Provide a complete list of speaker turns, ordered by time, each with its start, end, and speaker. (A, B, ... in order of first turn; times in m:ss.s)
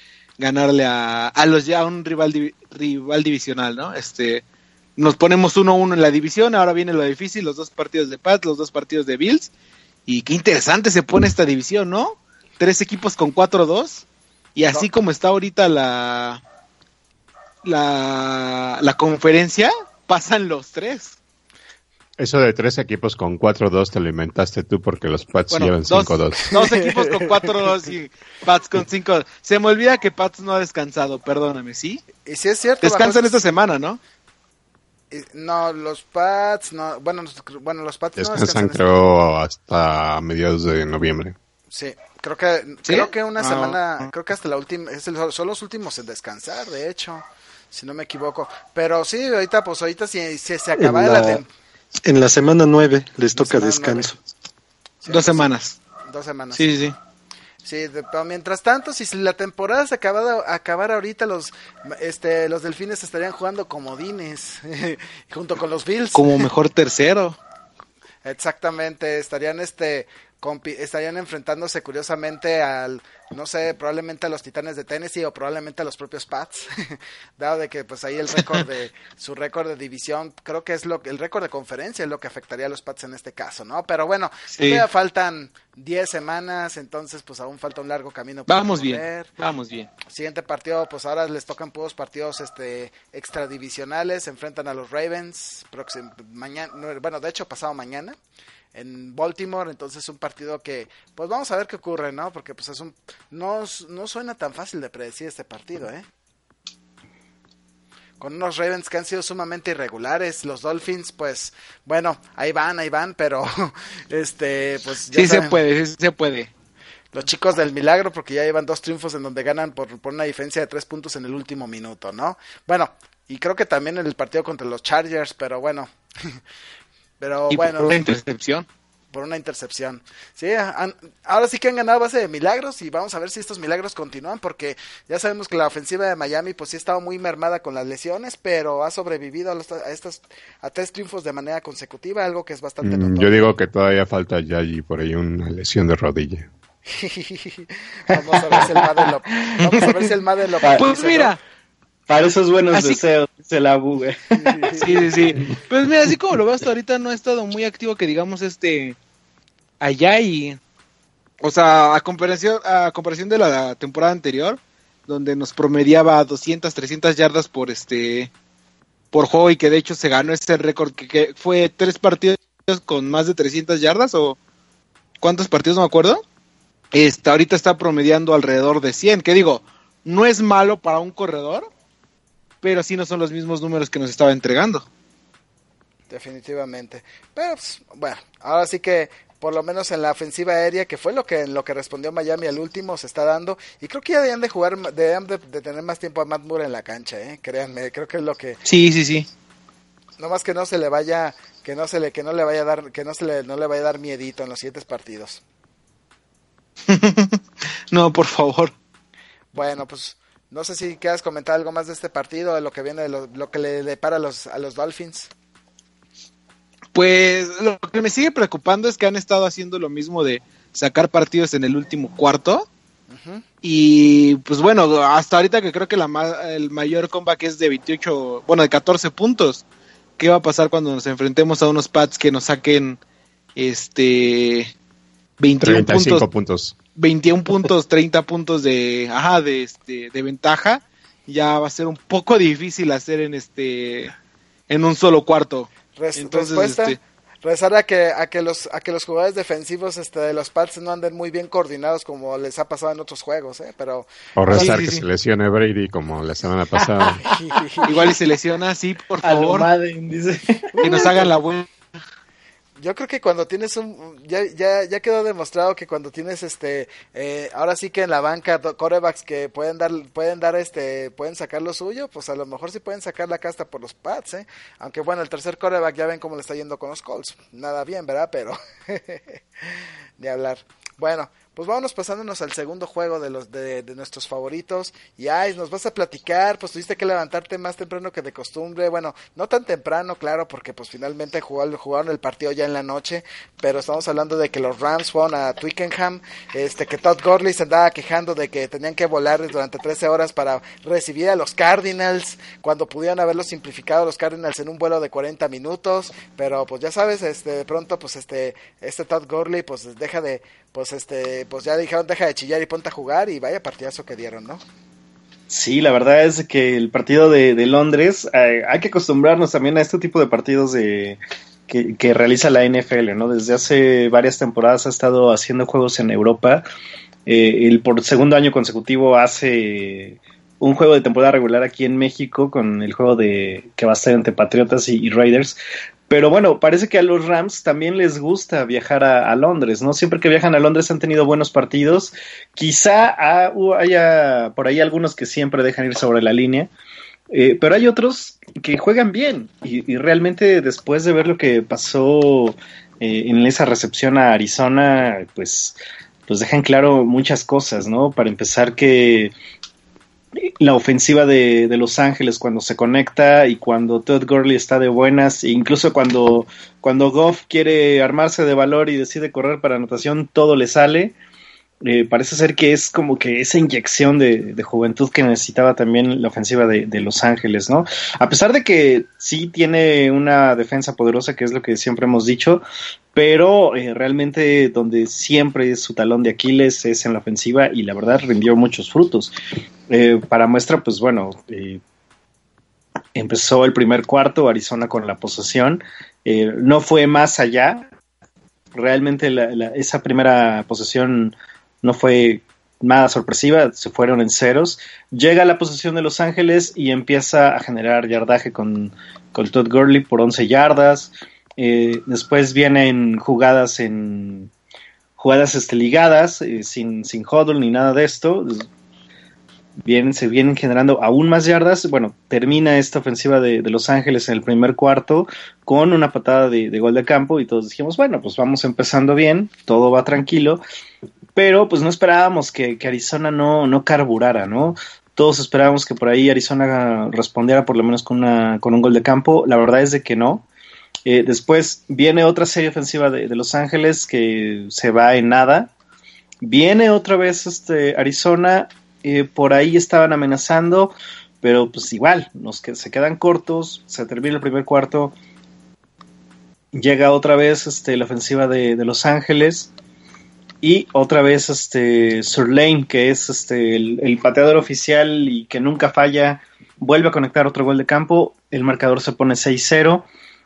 0:00.4-0:04.4 A
0:05.0-0:09.5 A
0:10.1-0:14.0 A
0:14.6-0:16.4 A
0:17.6-0:21.2 A
0:22.2-0:26.5 B
0:25.6-0:32.0 A
0:26.4-0:27.5 C
0:32.2-0:33.4 C
0:32.8-0:34.0 A
0:35.1-0:38.9 C
0:38.2-0:41.4 B
0:41.7-0:51.5 C
0:42.8-0:44.0 A
0:50.8-0:51.4 D
0:52.0-0:54.2 D
0:53.4-0:54.1 C
0:55.0-0:55.5 C
0:55.1-0:55.8 A
0:56.1-0:56.7 C
0:56.5-0:56.9 A
0:57.6-1:06.5 C
1:06.1-1:07.4 A
1:08.2-1:29.3 C
1:24.5-1:24.8 A
1:28.5-1:29.9 A
1:30.0-1:38.2 C
1:38.7-1:46.0 C
1:48.2-1:55.6 C
1:55.1-1:56.5 A
1:57.1-2:06.4 C
2:07.2-2:08.0 C
2:07.5-2:08.7 A
2:09.1-2:23.4 C
2:22.8-2:26.5 B
2:26.9-2:31.4 C
2:28.1-2:28.7 E
2:29.4-2:29.7 E
2:30.7-2:31.4 A
2:32.1-2:35.0 E
2:32.7-2:33.0 A
2:34.3-2:35.1 C
2:34.8-2:39.0 A
2:39.8-2:40.6 A
2:41.4-2:48.3 A
2:49.1-2:54.4 A
2:55.2-2:56.2 A
2:56.9-3:01.7 A
3:02.6-3:04.8 A
3:06.1-3:18.6 C
3:18.6-3:19.3 A
3:20.2-3:25.4 C
3:26.9-3:27.4 A
3:27.9-3:28.7 A
3:29.5-3:35.3 C
3:36.9-3:42.7 A
3:43.1-3:43.4 C
3:43.6-3:49.6 A
3:50.2-3:53.0 A
3:53.6-3:54.7 A
3:55.4-3:56.2 A
3:55.6-3:56.8 B
3:56.9-4:04.1 A
4:04.7-4:07.0 A
4:06.0-4:14.8 C
4:14.4-4:17.3 B
4:14.5-4:15.0 A
4:17.2-4:18.1 C
4:17.8-4:19.7 A
4:19.2-4:21.3 E
4:20.8-4:21.2 C
4:20.8-4:21.7 A
4:22.8-5:14.6 C
5:15.5-5:26.6 E
5:27.2-5:35.6 E
5:36.1-5:46.7 E
5:47.3-5:59.3 E
6:00.4-6:11.1 E
6:11.8-6:22.6 E
6:23.1-6:29.3 E
6:29.9-6:31.8 E
6:33.1-6:37.9 E
6:38.7-6:54.5 E
6:55.2-6:58.7 E
6:59.8-7:10.6 E
7:11.3-7:20.5 E
7:21.0-7:25.7 E
7:26.4-7:35.1 E
7:36.7-7:39.7 E
7:40.6-7:50.1 E